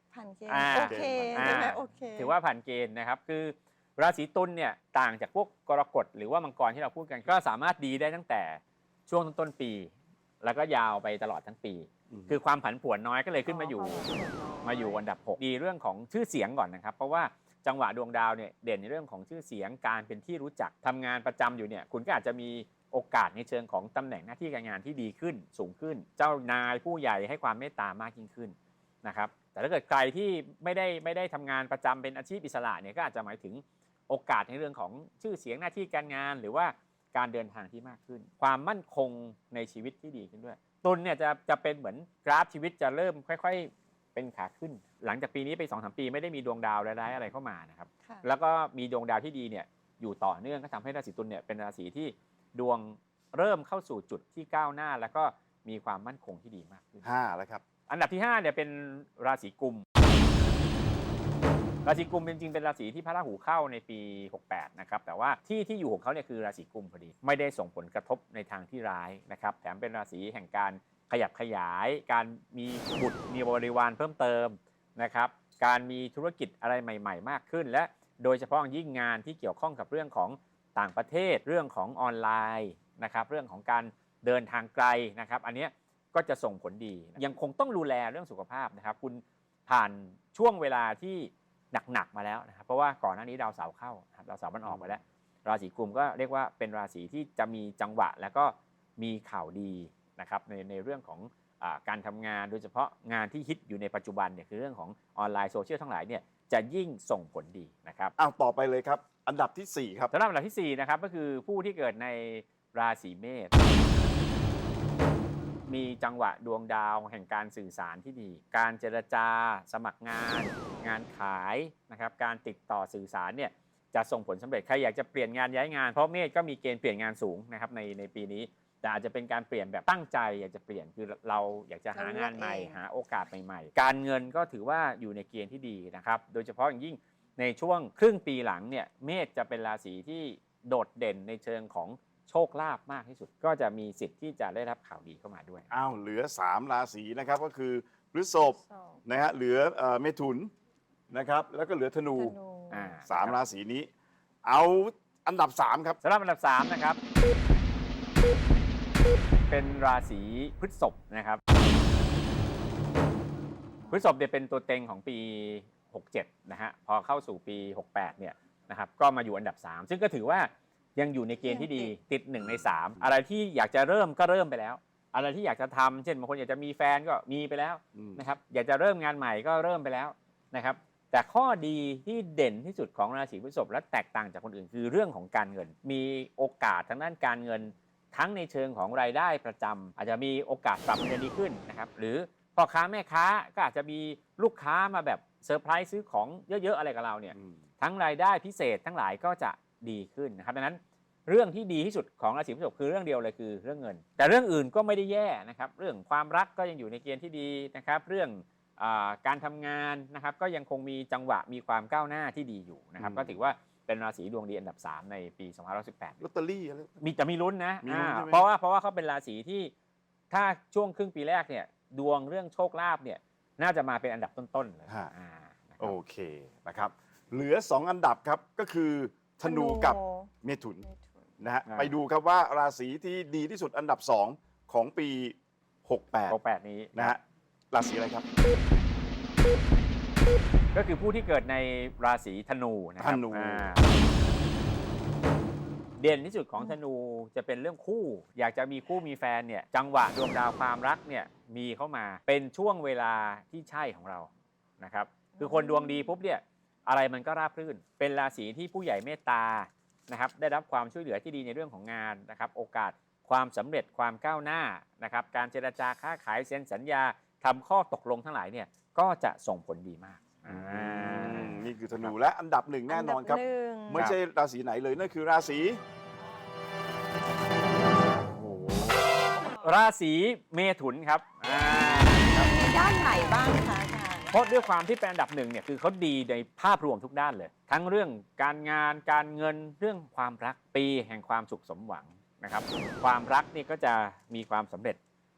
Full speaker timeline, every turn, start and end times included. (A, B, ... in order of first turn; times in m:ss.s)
0:00.1-0:02.3 A
0:00.5-0:14.1 B
0:00.6-0:01.7 C
0:12.1-0:12.4 C
0:13.4-0:15.0 A
0:14.6-0:57.0 B
0:57.0-0:57.6 C
0:57.9-0:59.8 B
1:01.8-1:48.1 B
1:34.6-1:35.0 C
1:48.2-1:50.1 C
1:50.1-1:53.5 B
1:55.7-2:25.7 B
2:11.9-2:12.8 A
2:25.7-2:30.5 C
2:28.6-2:29.0 A
2:31.1-2:32.4 C
2:32.2-2:33.0 A
2:32.7-2:33.4 B
2:33.0-2:33.9 C
2:34.4-2:36.0 C
2:36.0-2:37.0 B
2:39.4-2:41.4 B
2:43.9-3:36.2 B
2:51.4-2:51.9 A
2:57.9-2:58.2 C
3:17.3-3:17.6 C
3:33.0-3:33.4 C
3:36.2-3:37.0 C
3:37.0-3:39.7 B
3:37.8-3:38.4 C
3:40.3-3:45.9 B
3:45.8-3:50.8 C
3:49.4-3:50.3 A
3:50.9-3:51.2 A
3:51.4-3:56.4 C
3:51.7-3:52.0 B
3:56.3-3:57.2 B
3:56.9-3:57.2 C
3:57.7-3:58.2 C
4:00.7-4:03.9 B
4:03.0-4:03.7 C
4:06.0-4:32.1 B
4:15.4-4:16.0 A
4:30.5-4:35.8 C
4:32.9-4:34.1 A
4:38.3-4:39.0 B
4:39.5-4:42.5 B
4:42.4-4:44.4 A
4:44.3-4:55.0 B